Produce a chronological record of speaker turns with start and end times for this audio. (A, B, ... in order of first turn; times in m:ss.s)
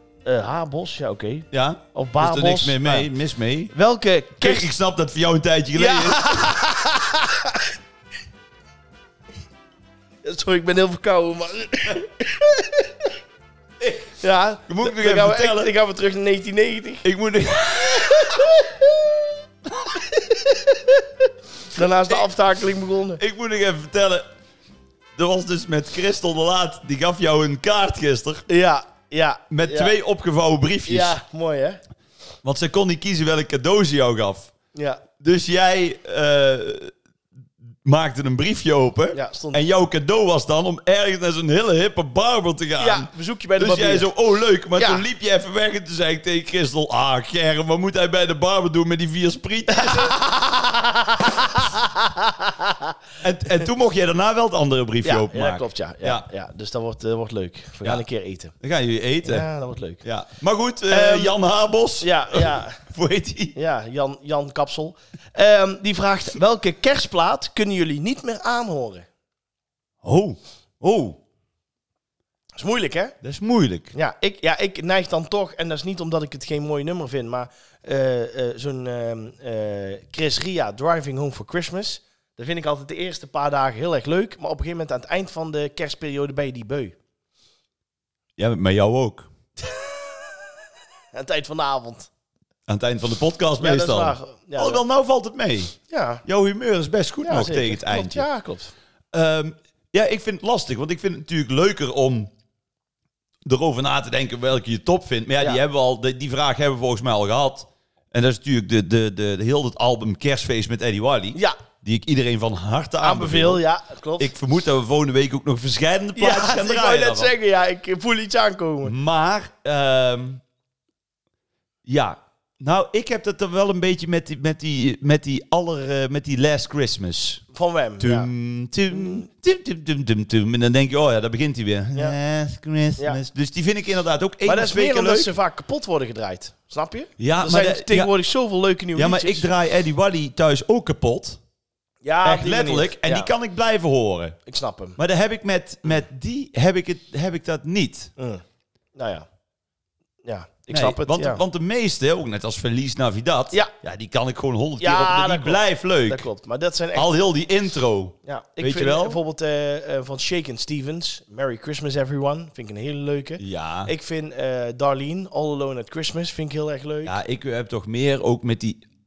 0:00.2-0:03.1 A
0:01.5-0:03.7 B
0:03.7-0:04.7 A
0:04.4-0:06.6 B
0:05.8-0:07.6 A
0:10.2-0:13.0 A
0:14.1-0:17.0 A
0:14.7-0:15.7 B
0:17.0-0:18.5 B
0:18.0-0:19.0 A
0:21.7-0:23.2 A
0:23.2-0:24.3 B
0:25.2-0:28.5 B
0:28.5-0:29.9 A
0:29.5-0:31.2 B
0:30.9-0:31.8 A
0:32.4-0:34.5 B
0:34.8-0:35.0 A
0:35.2-0:36.9 B
0:37.8-0:50.2 B
0:39.1-0:39.6 A
0:42.8-0:44.1 A
0:44.8-0:45.0 A
0:49.7-0:53.0 A
0:53.2-0:56.2 B
0:55.0-0:58.5 A
0:58.6-0:59.5 B
0:59.2-1:00.0 A
1:00.0-1:03.6 B
1:00.9-1:01.4 A
1:02.0-1:02.8 A
1:03.6-1:09.1 A
1:10.0-1:11.2 B
1:12.6-1:13.2 A
1:13.2-1:13.9 B
1:13.9-1:27.0 A
1:28.4-1:29.3 B
1:29.6-1:30.2 A
1:31.1-1:32.1 A
1:32.7-1:35.7 B
1:33.6-1:34.8 A
1:35.9-1:36.2 A
1:36.2-1:38.2 B
1:37.2-1:38.7 A
1:39.1-1:42.3 B
1:43.4-1:53.6 B
1:53.0-1:54.3 A
1:54.2-1:57.3 B
1:56.2-1:58.9 A
1:58.8-2:00.4 B
2:01.9-2:07.4 B
2:07.5-2:08.3 A
2:08.0-2:15.3 B
2:08.9-2:09.3 A
2:14.4-2:19.5 A
2:17.2-2:18.1 B
2:19.0-2:21.4 B
2:22.0-2:23.3 A
2:22.2-2:24.4 B
2:24.5-2:25.0 A
2:25.0-2:28.1 B
2:28.2-2:28.4 A
2:29.0-2:29.3 A
2:30.2-2:31.4 A
2:30.7-2:36.3 B
2:34.8-2:37.1 A
2:37.0-2:39.2 B
2:38.3-2:47.2 A
2:43.4-2:43.9 B
2:47.0-2:48.8 B